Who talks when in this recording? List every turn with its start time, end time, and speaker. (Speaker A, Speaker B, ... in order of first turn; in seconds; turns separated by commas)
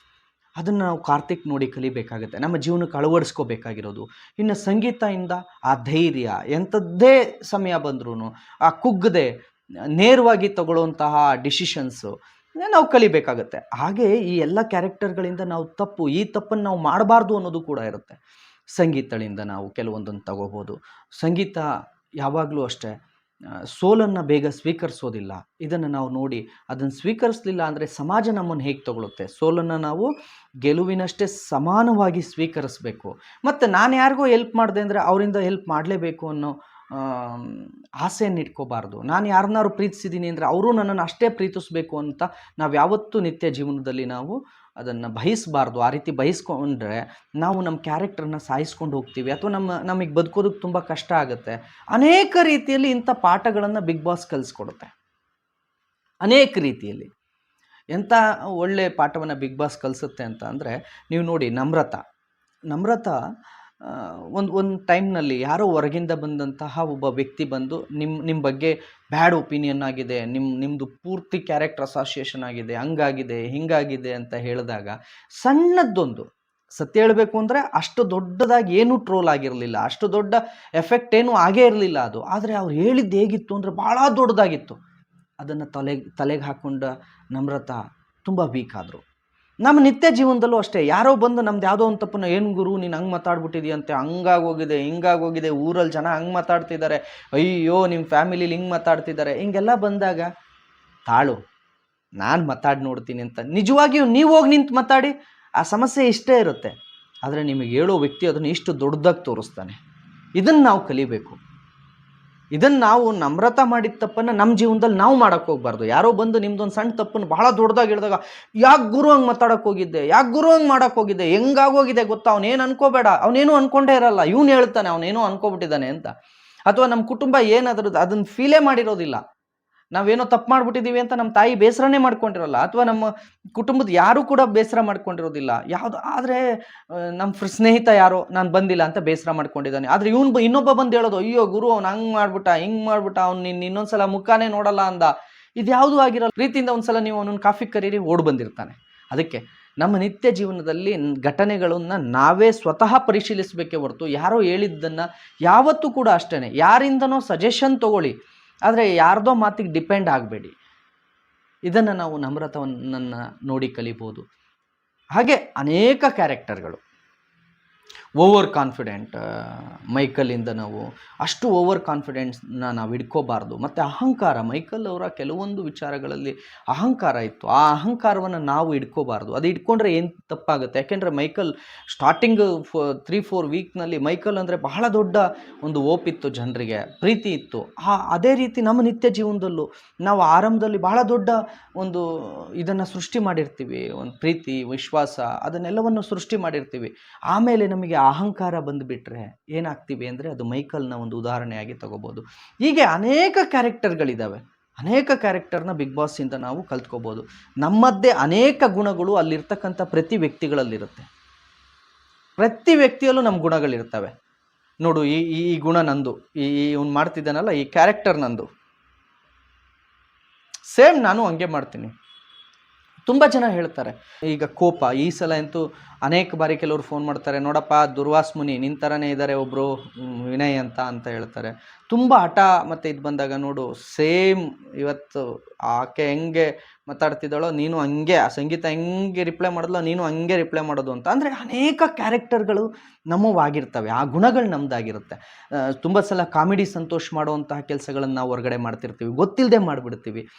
Speaker A: 0.6-9.3, Speaker A: 10.0-18.2, Speaker A: 18.8-21.7, Speaker A: 22.2-23.0, Speaker A: 23.8-30.1, Speaker A: 30.6-54.9, Speaker A: 56.2-57.1, Speaker A: 57.9-62.0, Speaker A: 62.7-63.2, Speaker A: 63.8-84.8, Speaker A: 85.4-89.0, Speaker A: 89.6-100.3, Speaker A: 101.1-101.4, Speaker A: 102.2-109.8, Speaker A: 110.4-111.4, Speaker A: 112.5-126.1, Speaker A: 126.7-129.2, Speaker A: 129.9-158.2, Speaker A: 158.7-160.6, Speaker A: 161.7-164.2, Speaker A: 165.2-166.8, Speaker A: 168.2-211.1, Speaker A: 212.4-214.1, Speaker A: 214.8-218.5, Speaker A: 220.7-221.9, Speaker A: 223.1-250.2